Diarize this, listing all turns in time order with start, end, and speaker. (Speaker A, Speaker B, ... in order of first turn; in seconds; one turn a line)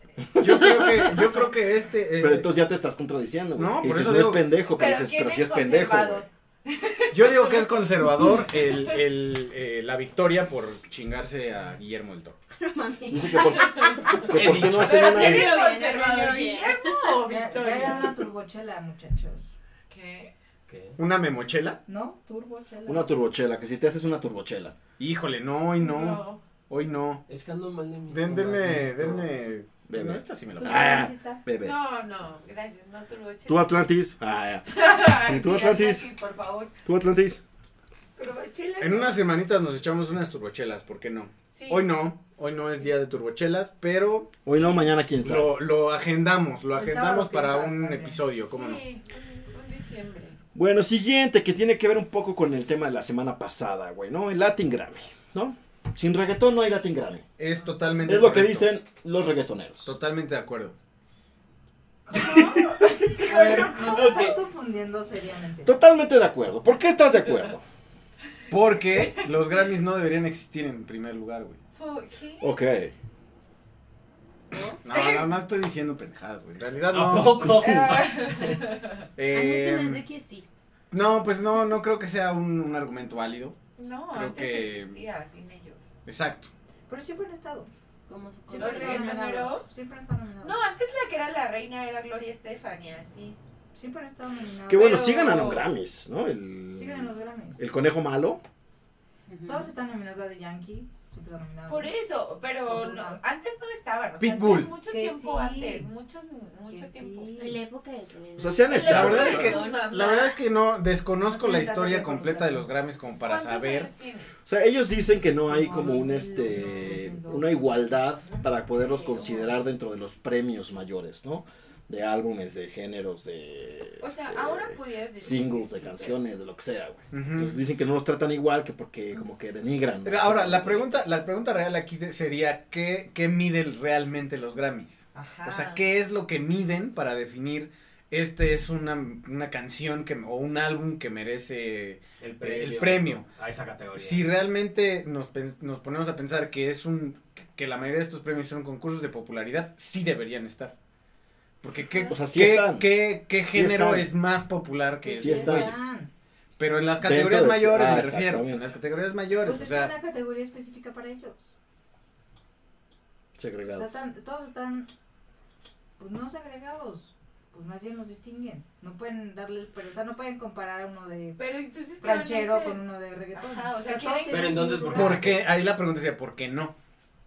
Speaker A: 0.2-1.4
Speaker B: 0.4-2.5
Speaker A: 2.1-6.2
Speaker B: 3.5-4.5
Speaker C: 4.6-9.0
Speaker B: 7.1-12.4
Speaker D: 12.6-14.3
Speaker A: 13.1-15.6
Speaker C: 13.7-18.2
Speaker E: 14.3-15.2
Speaker D: 14.9-17.3
Speaker F: 17.2-19.5
Speaker C: 19.9-20.3
Speaker E: 20.7-21.0
Speaker B: 21.0-21.8
Speaker F: 21.9-23.1
Speaker A: 22.9-24.8
Speaker B: 25.0-27.2
Speaker C: 25.8-26.4
Speaker E: 27.3-29.3
Speaker B: 28.1-31.0
Speaker A: 29.9-31.8
Speaker F: 30.6-31.4
Speaker C: 31.6-33.8
Speaker A: 33.5-36.1
Speaker C: 34.7-36.7
Speaker A: 36.8-37.4
Speaker C: 38.1-39.2
Speaker B: 38.8-44.3
Speaker C: 41.5-42.0
Speaker A: 44.4-45.6
Speaker C: 44.5-44.9
Speaker B: 45.2-48.8
Speaker F: 46.7-48.2
Speaker C: 48.5-50.4
Speaker A: 50.5-57.2
Speaker B: 57.4-58.7
Speaker A: 58.0-59.9
Speaker B: 59.8-60.7
Speaker C: 62.1-64.3
Speaker F: 63.1-65.7
Speaker B: 63.3-64.3
Speaker A: 63.4-64.2
Speaker A: 65.6-67.6
Speaker B: 68.5-71.6
Speaker C: 71.8-72.5
Speaker A: 72.4-72.9
Speaker B: 74.6-77.8
Speaker C: 74.9-75.2
Speaker E: 76.9-78.5
Speaker C: 77.5-79.0
Speaker B: 79.2-80.0
Speaker D: 79.3-80.5
Speaker B: 80.9-83.6
Speaker C: 83.8-85.9
Speaker B: 84.1-85.0
Speaker B: 86.0-86.5
Speaker F: 86.9-87.7
Speaker D: 88.1-89.4
Speaker F: 88.5-90.6
Speaker C: 88.5-89.7
Speaker C: 90.4-93.4
Speaker F: 93.7-95.3
Speaker A: 94.7-98.4
Speaker C: 94.8-95.7
Speaker F: 96.7-97.6
Speaker D: 99.3-99.7
Speaker F: 99.4-101.9
Speaker C: 101.7-107.3
Speaker F: 102.7-103.2
Speaker B: 104.2-104.7
Speaker F: 104.8-105.9
Speaker F: 106.7-107.6
Speaker D: 107.3-110.0
Speaker A: 108.3-109.6
Speaker C: 108.6-110.4
Speaker B: 108.8-113.9
Speaker F: 111.3-112.7
Speaker C: 113.2-114.3
Speaker A: 114.4-130.9
Speaker F: 115.5-118.0
Speaker C: 118.8-119.5
Speaker C: 124.0-126.2
Speaker B: 127.1-127.6
Speaker B: 130.0-143.2
Speaker C: 135.1-135.8
Speaker E: 142.2-144.3
Speaker B: 143.9-150.7
Speaker B: 151.6-155.8
Speaker A: 152.1-152.9
Speaker A: 153.4-154.1
Speaker F: 155.0-156.1
Speaker A: 155.1-155.8
Speaker B: 156.6-159.9
Speaker A: 157.0-158.7
Speaker F: 159.4-161.5
Speaker A: 163.4-164.0
Speaker F: 163.6-164.9
Speaker F: 166.0-171.4
Speaker C: 171.4-172.8
Speaker F: 172.0-175.2
Speaker C: 173.3-175.3
Speaker E: 174.3-175.4
Speaker B: 174.9-176.7